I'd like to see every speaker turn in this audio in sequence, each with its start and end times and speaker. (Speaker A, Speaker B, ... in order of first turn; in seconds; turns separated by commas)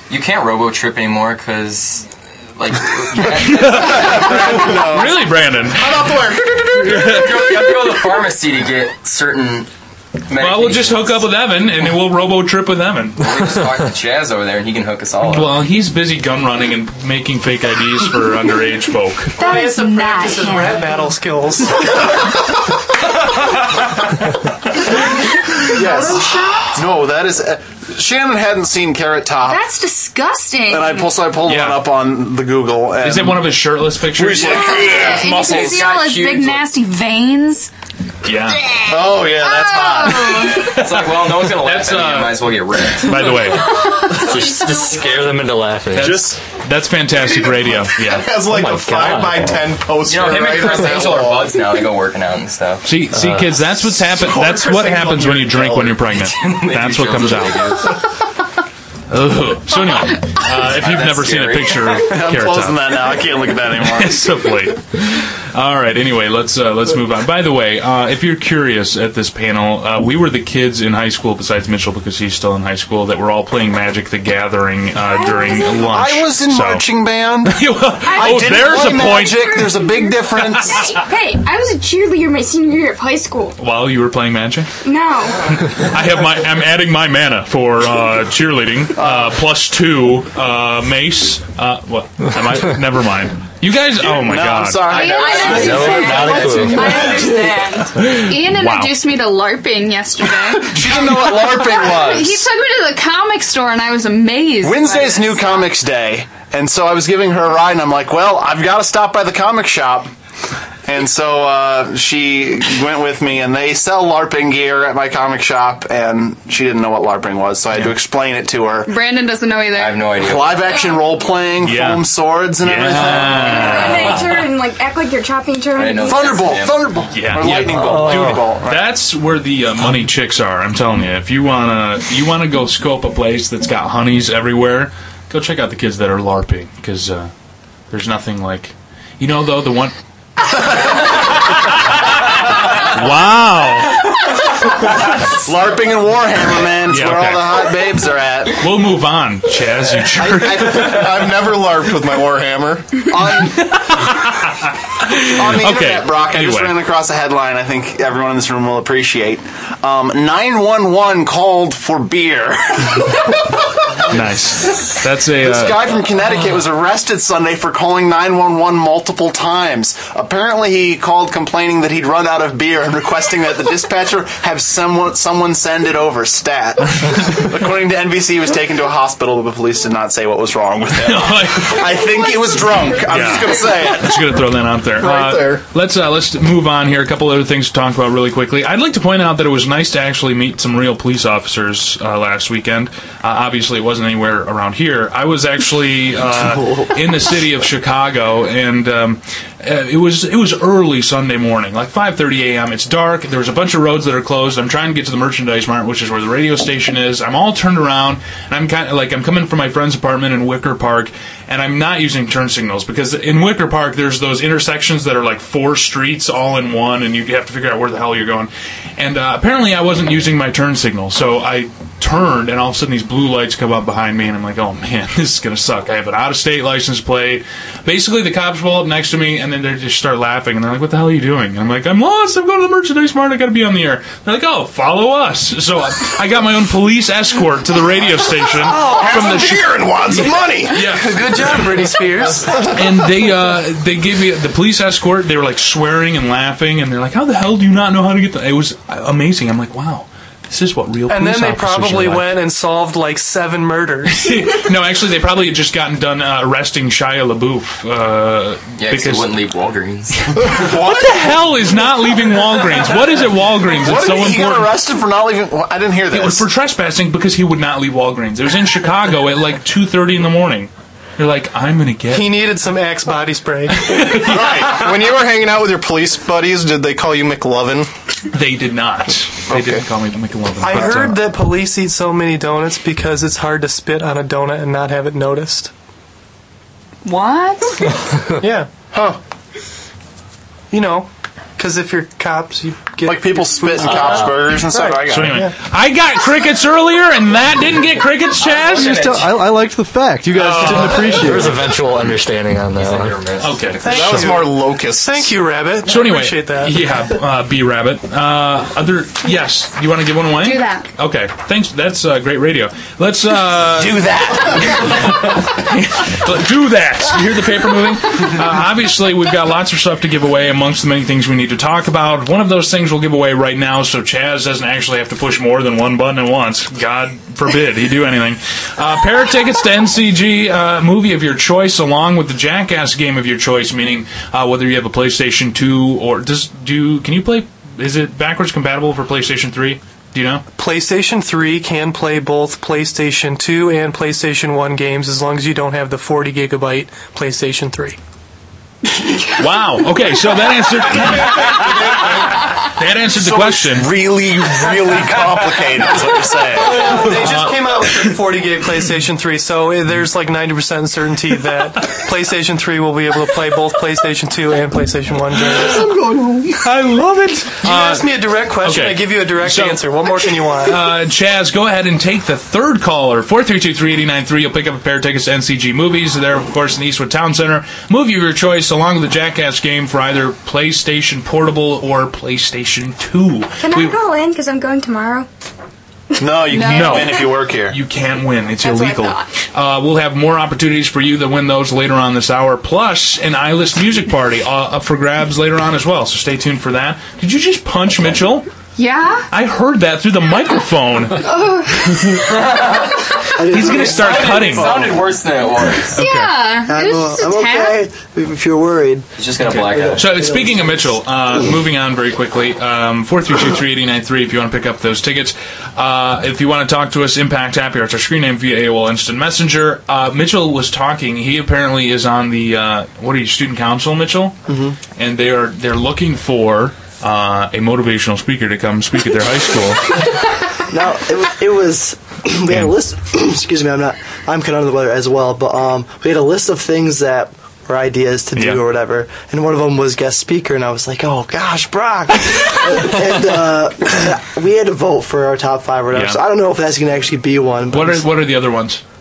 Speaker A: 0.1-4.3, Speaker B: 3.2-6.2, Speaker C: 3.7-7.7, Speaker D: 4.1-5.0, Speaker B: 6.8-7.6, Speaker A: 7.1-9.7, Speaker A: 10.3-11.2, Speaker B: 10.4-13.4, Speaker A: 13.2-15.6, Speaker B: 15.2-19.4, Speaker E: 19.4-20.8, Speaker F: 19.4-22.2, Speaker G: 19.4-20.8, Speaker G: 25.5-26.8, Speaker D: 25.6-29.6, Speaker G: 29.4-31.1, Speaker D: 30.7-33.6, Speaker B: 31.4-31.8, Speaker B: 33.0-34.8, Speaker D: 34.1-35.9, Speaker G: 34.4-37.7, Speaker A: 34.8-36.6, Speaker B: 38.2-38.6, Speaker D: 38.9-40.7, Speaker G: 39.1-40.8, Speaker A: 40.7-43.6, Speaker B: 40.7-43.8, Speaker H: 44.1-46.4, Speaker B: 45.9-48.3, Speaker D: 46.0-46.4, Speaker C: 47.1-51.6, Speaker H: 48.4-49.7, Speaker A: 50.0-52.9, Speaker B: 52.8-57.8, Speaker H: 53.1-53.6, Speaker C: 54.0-56.0, Speaker A: 56.1-57.9, Speaker B: 59.1-63.0, Speaker A: 60.6-62.1, Speaker D: 62.0-64.3, Speaker B: 63.7-76.8, Speaker E: 75.0-75.9, Speaker D: 75.8-81.0, Speaker B: 77.4-79.7, Speaker E: 78.0-83.6, Speaker B: 83.6-84.7, Speaker E: 84.8-85.5, Speaker B: 85.5-95.1, Speaker D: 89.0-89.3, Speaker D: 94.0-97.2, Speaker G: 94.8-96.3, Speaker E: 95.2-97.9, Speaker H: 95.5-97.0, Speaker A: 95.5-97.2, Speaker B: 98.0-98.9, Speaker G: 98.1-105.6, Speaker D: 100.7-102.4, Speaker D: 104.6-110.1, Speaker D: 110.8-118.9, Speaker G: 118.8-120.1, Speaker A: 119.8-120.5, Speaker D: 120.1-124.3, Speaker B: 121.6-122.0, Speaker B: 122.6-124.5, Speaker E: 123.3-126.6, Speaker A: 125.7-127.0, Speaker D: 126.0-128.9, Speaker B: 127.1-137.3, Speaker I: 127.6-128.4, Speaker H: 128.1-128.3, Speaker B: 137.9-139.9, Speaker B: 142.7-144.1, Speaker D: 145.1-148.6, Speaker B: 146.9-147.7, Speaker B: 148.5-151.1, Speaker D: 150.1-151.1, Speaker C: 150.5-153.0, Speaker D: 153.1-153.6, Speaker B: 153.2-156.8, Speaker D: 155.3-163.4, Speaker B: 164.1-165.8, Speaker D: 165.4-184.3, Speaker B: 181.0-181.9, Speaker B: 183.1-241.7, Speaker C: 185.0-185.6, Speaker F: 238.7-239.3, Speaker D: 238.8-240.7, Speaker C: 239.2-240.7, Speaker F: 240.7-242.5, Speaker B: 242.5-252.3, Speaker F: 251.1-254.3, Speaker B: 254.1-259.4, Speaker A: 258.8-260.2, Speaker B: 260.2-264.8, Speaker D: 260.6-261.2, Speaker D: 263.8-266.4, Speaker B: 266.1-272.3, Speaker F: 272.1-273.9, Speaker B: 273.7-274.6, Speaker C: 274.2-277.9, Speaker D: 274.2-274.8, Speaker B: 278.3-281.2, Speaker C: 279.5-279.8, Speaker F: 280.6-285.7, Speaker G: 287.0-287.9, Speaker F: 288.4-288.7, Speaker F: 290.7-295.5, Speaker D: 293.0-295.4, Speaker H: 293.9-294.3, Speaker B: 295.1-299.1, Speaker A: 298.3-299.4, Speaker J: 298.8-301.6, Speaker B: 300.3-301.4, Speaker H: 300.6-303.2, Speaker A: 302.7-304.0, Speaker B: 303.4-304.4, Speaker F: 303.8-306.8, Speaker C: 303.8-305.3, Speaker B: 305.9-340.4, Speaker G: 310.4-310.9, Speaker D: 313.8-315.0, Speaker F: 340.6-348.0, Speaker B: 349.3-353.9, Speaker D: 351.3-352.3, Speaker D: 353.1-357.2, Speaker F: 356.7-365.9, Speaker B: 357.0-357.9, Speaker C: 365.5-366.6, Speaker F: 366.6-370.9, Speaker B: 367.6-369.9, Speaker B: 370.6-384.0, Speaker E: 383.6-385.3, Speaker D: 386.2-387.8, Speaker G: 386.5-387.2, Speaker B: 386.6-398.5, Speaker E: 388.6-389.3, Speaker G: 398.8-399.3, Speaker B: 399.3-401.3, Speaker G: 401.2-402.2, Speaker B: 401.9-402.2, Speaker I: 403.3-404.8, Speaker B: 403.5-404.9, Speaker A: 403.7-406.0, Speaker B: 405.9-406.4, Speaker G: 405.9-407.8, Speaker I: 406.7-410.9, Speaker A: 409.1-410.1, Speaker B: 409.4-424.4, Speaker I: 424.5-424.8, Speaker B: 425.0-429.9, Speaker I: 430.7-448.1, Speaker B: 445.9-446.2, Speaker B: 447.7-448.8